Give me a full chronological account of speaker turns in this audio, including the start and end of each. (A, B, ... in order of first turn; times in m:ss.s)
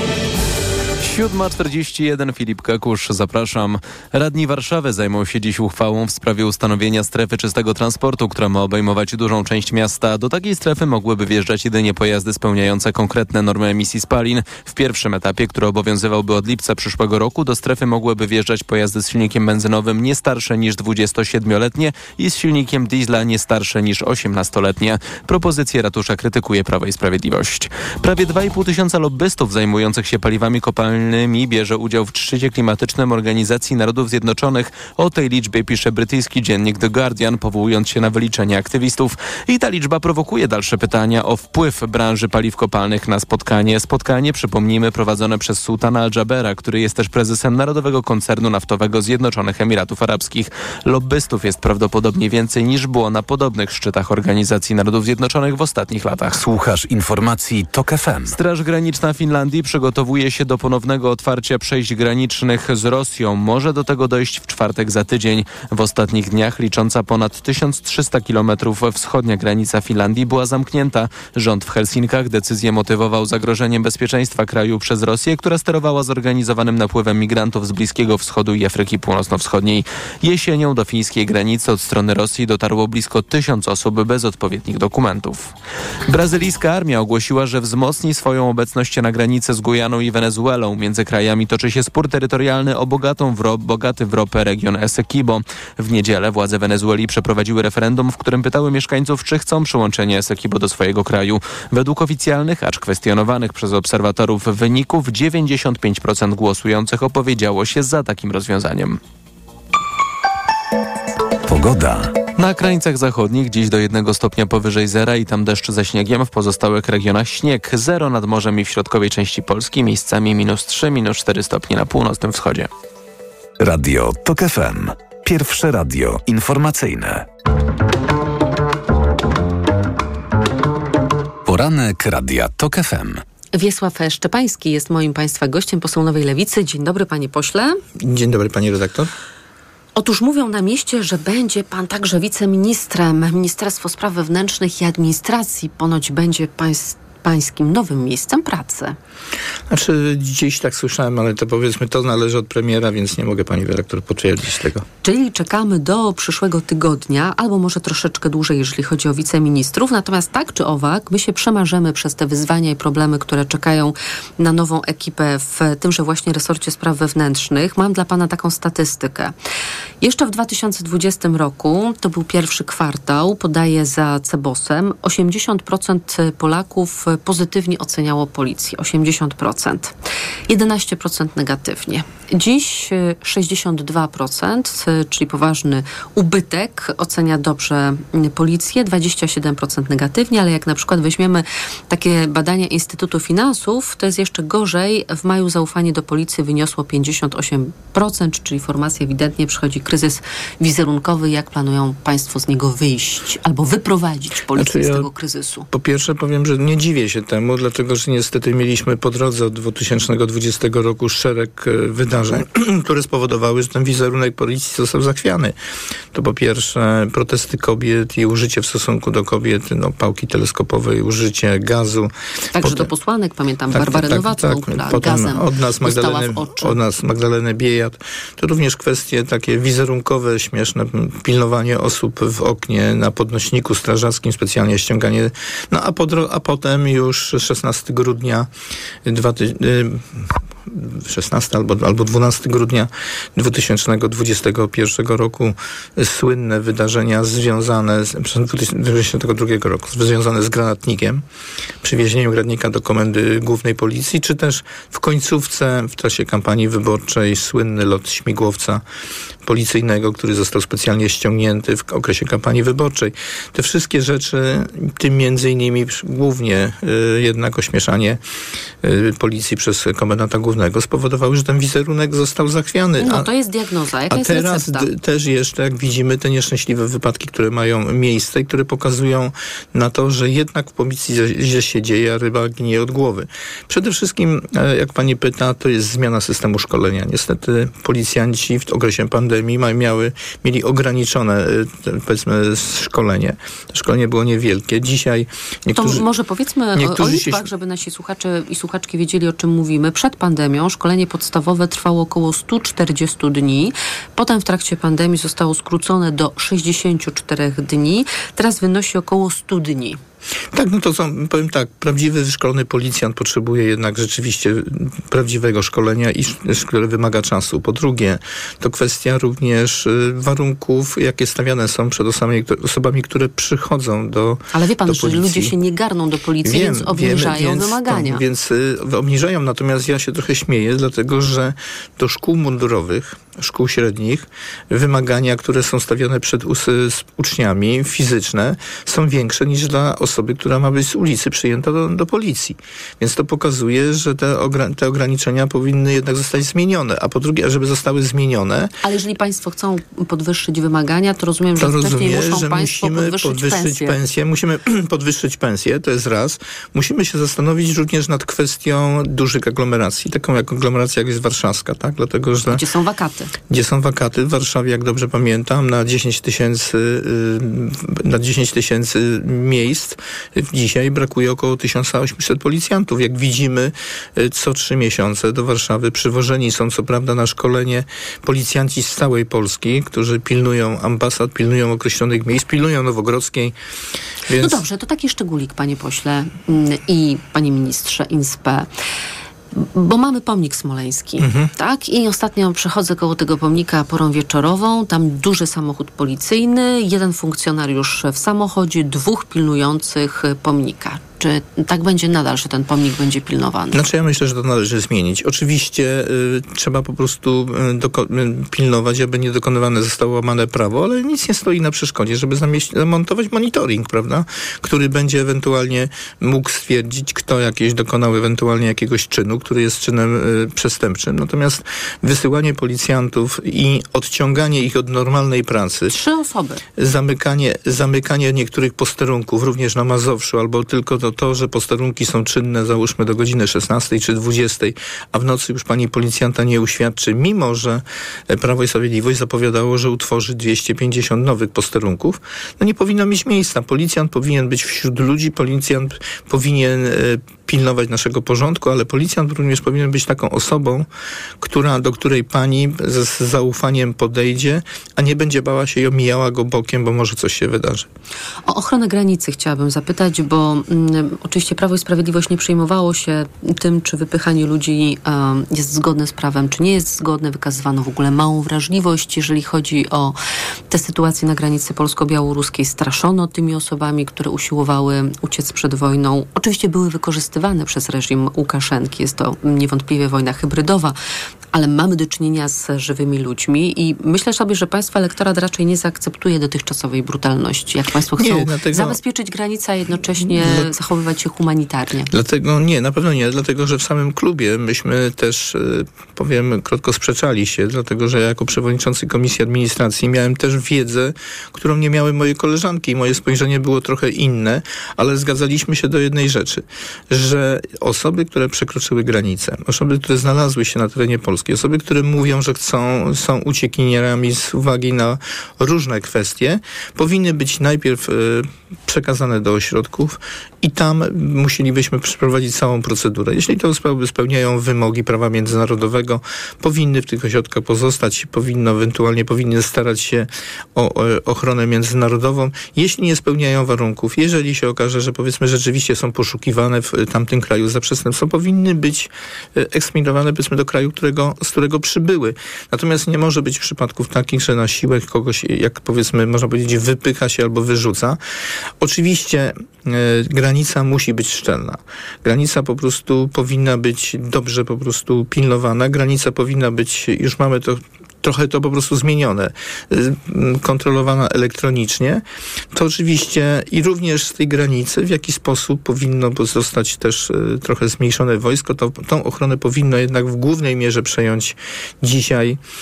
0:01.0-0:56.4 A
0:56.3-0:58.4 B
0:58.3-1:25.5 A
1:26.1-1:49.0 A
1:51.5-1:52.2 B
1:52.4-2:02.7 A
2:03.6-2:07.3 B
2:11.4-2:13.2 B
2:13.6-2:17.8 C
2:18.0-2:19.1 D
2:20.0-2:29.0 C
2:29.7-2:34.8 D
2:35.0-2:49.3 C
2:50.0-2:59.9 C
3:00.5-3:25.7 C
3:24.5-3:25.1 D
3:25.7-3:35.6 D
3:36.1-3:42.9 D
3:42.6-3:46.8 C
3:43.7-3:58.5 D
3:59.0-4:11.2 D
4:11.8-4:18.8 D
4:19.4-4:28.2 D
4:28.8-4:33.3 D
4:33.0-4:34.9 C
4:34.1-4:56.0 D
4:55.7-5:10.0 C
4:56.8-4:57.4 D
5:10.5-5:25.5 D
5:24.5-5:28.2 C
5:26.4-5:48.7 D
5:48.8-5:54.0 C
5:51.6-6:02.6 D
6:02.5-6:03.3 C
6:03.5-6:23.6 D
6:24.3-6:24.6 D
6:24.4-6:28.7 C
6:29.6-6:43.8 C
6:31.2-6:31.5 D
6:43.7-7:06.0 D
7:05.9-7:06.6 C
7:06.8-7:30.9 D
7:31.4-7:37.9 D
7:38.5-7:50.2 C
7:50.7-8:01.0 C
8:01.5-8:12.1 C
8:08.2-8:09.0 D
8:10.3-8:10.7 D
8:12.1-9:08.2 D
9:08.8-9:22.2 D
9:22.7-9:32.6 D